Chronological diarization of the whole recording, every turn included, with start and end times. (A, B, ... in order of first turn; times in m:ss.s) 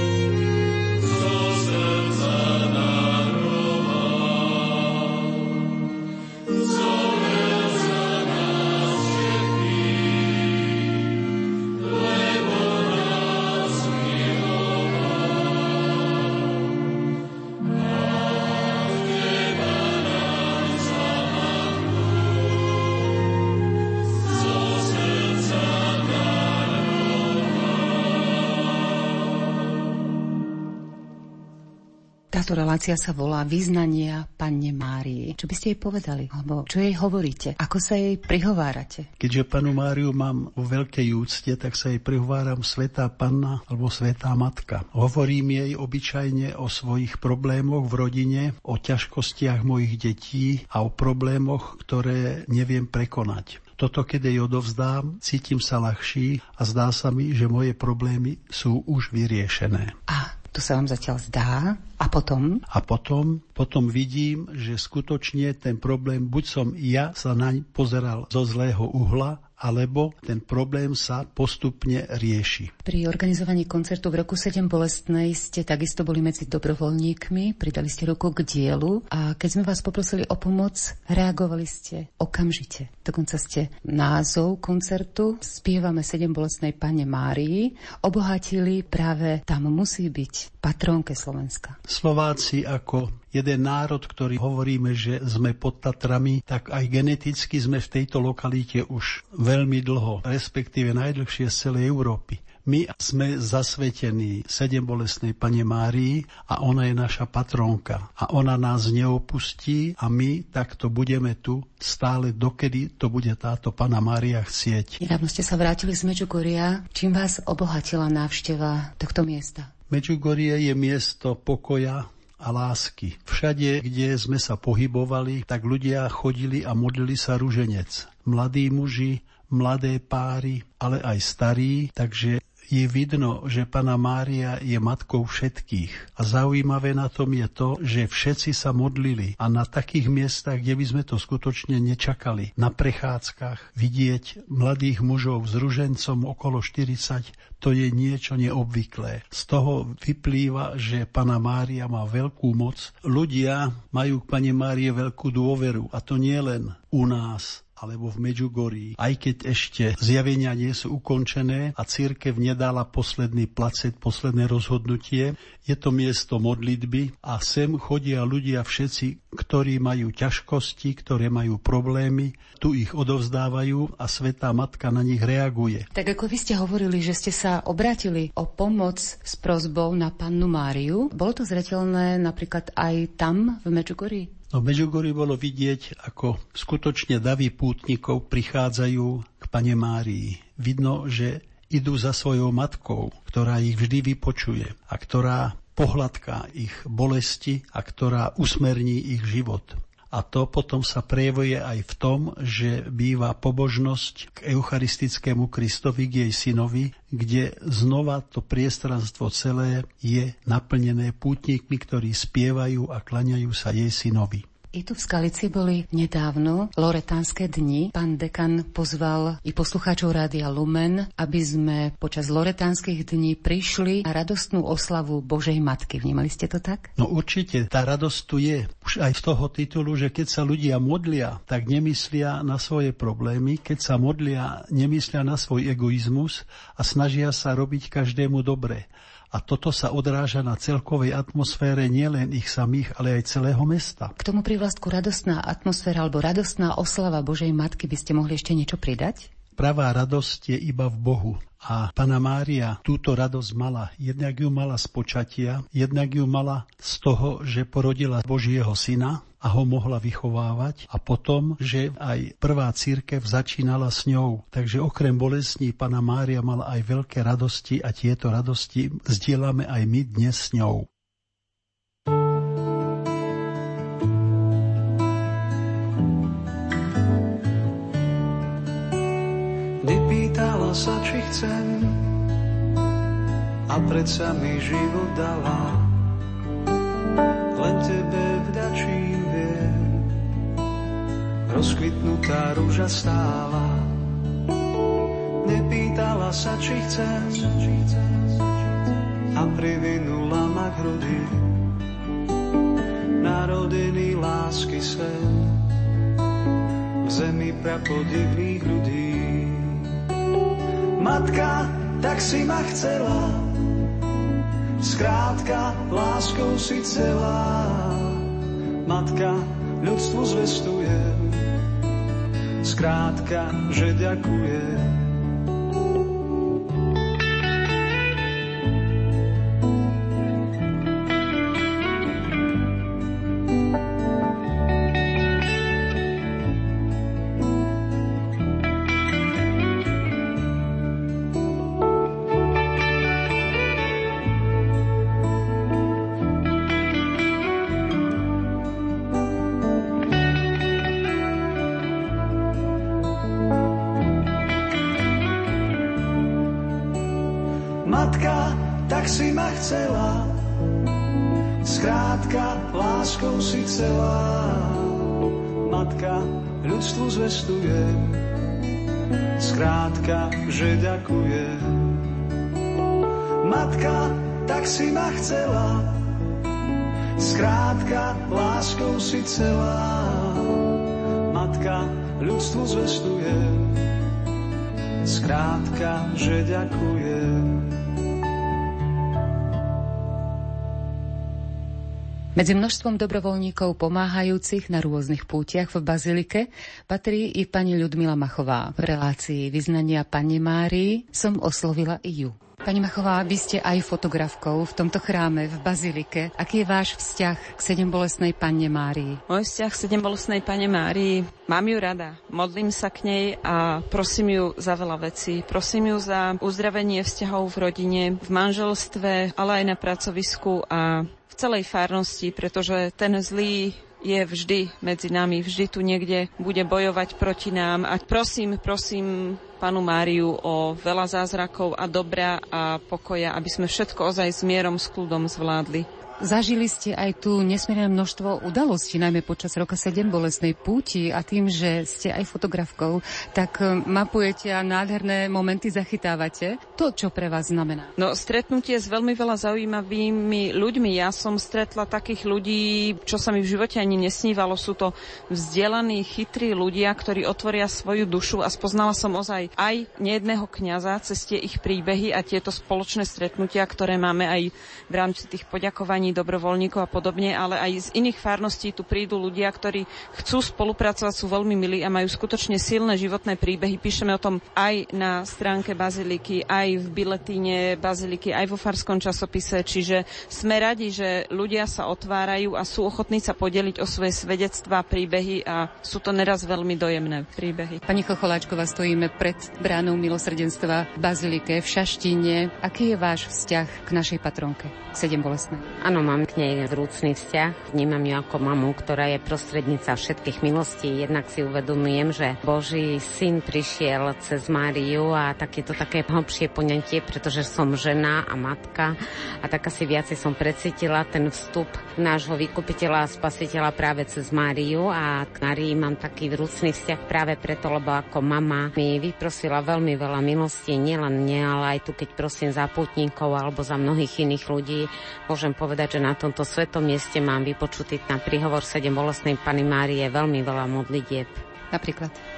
0:32.3-0:39.1 A
0:39.2-0:59.9 B
1:00.1-1:02.6 A
1:02.7-1:12.7 B
1:12.8-1:31.8 A
1:31.8-1:55.0 B
1:55.0-1:59.7 A
1:59.9-2:55.9 B
2:55.9-3:04.3 A
3:04.5-3:34.4 B
3:34.7-3:46.9 A
3:47.0-4:04.1 B
4:04.2-4:09.3 A
4:09.6-4:30.9 B
4:39.8-4:42.1 C
4:43.7-4:46.0 C
4:47.5-4:50.1 C
4:51.5-4:54.0 C
4:55.4-4:58.3 C
4:59.3-5:01.6 C
5:03.2-5:05.6 C
5:07.0-5:09.9 C
5:11.0-5:13.5 C
5:14.8-5:18.3 C
5:18.8-5:21.5 C
5:22.6-5:25.1 C
5:57.8-6:00.3 C
6:01.6-6:05.1 C
6:05.6-6:08.2 C
6:09.4-6:12.0 C
6:13.4-6:15.9 C
6:17.2-6:20.6 C
6:21.3-6:23.8 C
6:25.0-6:27.7 C
6:32.4-6:49.2 A
6:49.3-7:15.8 D
7:16.2-7:27.9 A
7:28.0-8:07.8 D
8:07.8-8:15.7 A
8:15.8-8:51.4 E
8:51.7-8:52.2 A